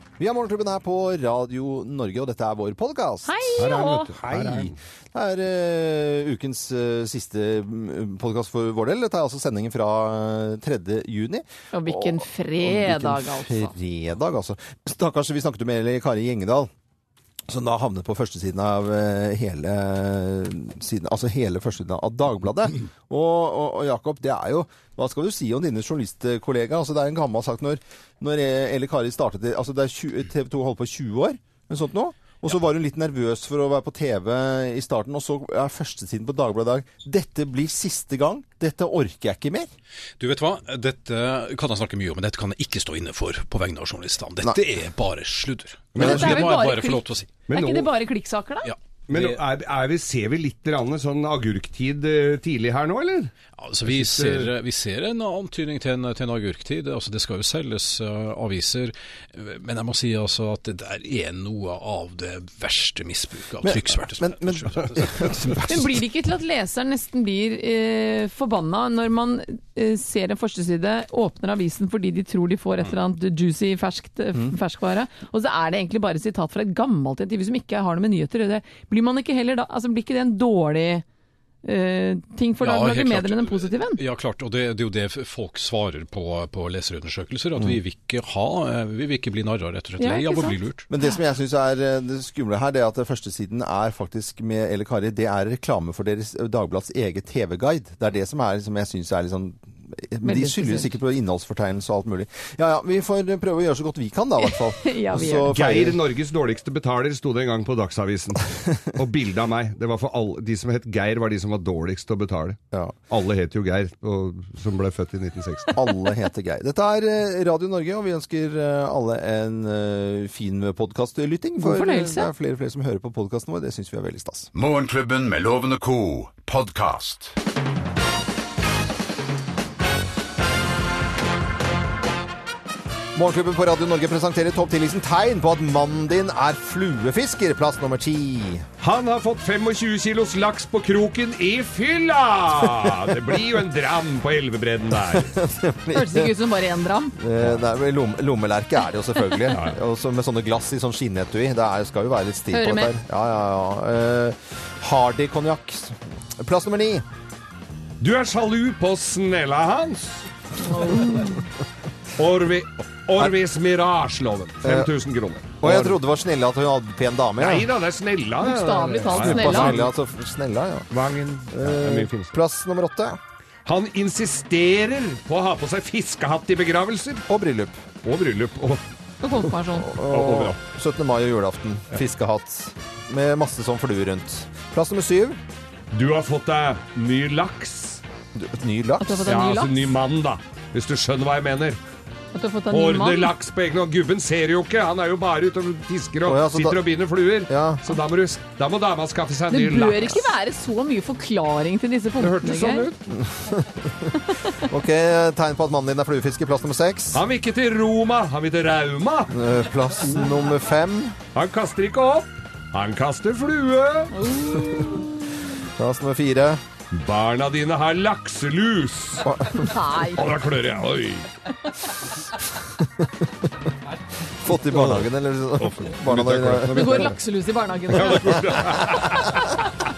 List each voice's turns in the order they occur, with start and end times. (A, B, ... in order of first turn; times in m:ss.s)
0:00.2-0:16.7 A
0:03.3-0:04.1 B
0:03.6-0:04.8 C
0:11.7-0:13.7 B
0:17.5-0:39.7 A
0:40.2-0:47.4 D
0:45.9-0:46.4 C
0:46.0-0:48.7 B
0:46.0-0:46.4 A
0:47.5-0:47.9 C
0:48.6-0:49.4 D
0:49.1-0:54.5 C
0:53.6-1:05.6 D
1:03.6-1:05.9 A
1:05.7-1:21.0 B
1:21.6-1:24.0 B
1:22.6-1:30.9 D
1:30.0-1:30.6 B
1:30.9-1:46.0 A
1:40.2-1:40.9 B
1:44.4-1:45.5 B
1:45.5-1:55.8 C
1:52.7-1:53.0 A
1:55.7-2:04.5 A
2:01.6-2:02.3 B
2:04.5-2:07.3 E
2:13.2-2:18.7 A
2:18.8-2:25.4 C
2:25.1-2:26.3 A
2:25.9-2:27.2 B
2:27.2-2:37.0 A
2:29.5-2:29.8 C
2:32.5-2:32.9 B
2:38.0-2:40.3 C
2:40.6-2:41.5 B
2:42.2-2:46.0 C
2:44.6-2:44.9 A
2:45.6-2:47.7 A
2:47.4-2:49.9 C
2:48.4-2:49.8 B
2:49.1-2:50.9 A
2:50.9-2:52.4 C
2:51.5-2:53.2 A
2:53.6-2:57.2 C
2:57.3-2:57.8 A
2:58.0-2:58.8 C
2:59.2-3:00.0 B
2:59.8-3:05.4 A
3:00.0-3:00.6 C
3:05.9-3:08.0 C
3:08.4-3:09.2 A
3:09.0-3:09.9 B
3:09.2-3:11.8 C
3:12.3-3:13.3 B
3:12.7-3:20.3 C
3:16.3-3:16.8 A
3:17.5-3:17.8 A
3:19.5-3:22.9 B
3:22.2-3:23.0 C
3:23.1-3:27.2 A
3:24.4-3:24.6 B
3:27.1-3:29.6 C
3:29.3-3:31.2 A
3:31.3-3:34.1 C
3:34.1-3:35.5 B
3:35.6-3:36.6 A
3:36.9-3:39.3 C
3:39.2-3:39.7 A
3:39.5-3:40.2 B
3:40.1-3:41.3 C
3:42.8-3:43.5 A
3:44.4-3:47.1 A
3:44.5-3:47.2 C
3:46.7-3:48.4 B
3:47.9-3:49.5 C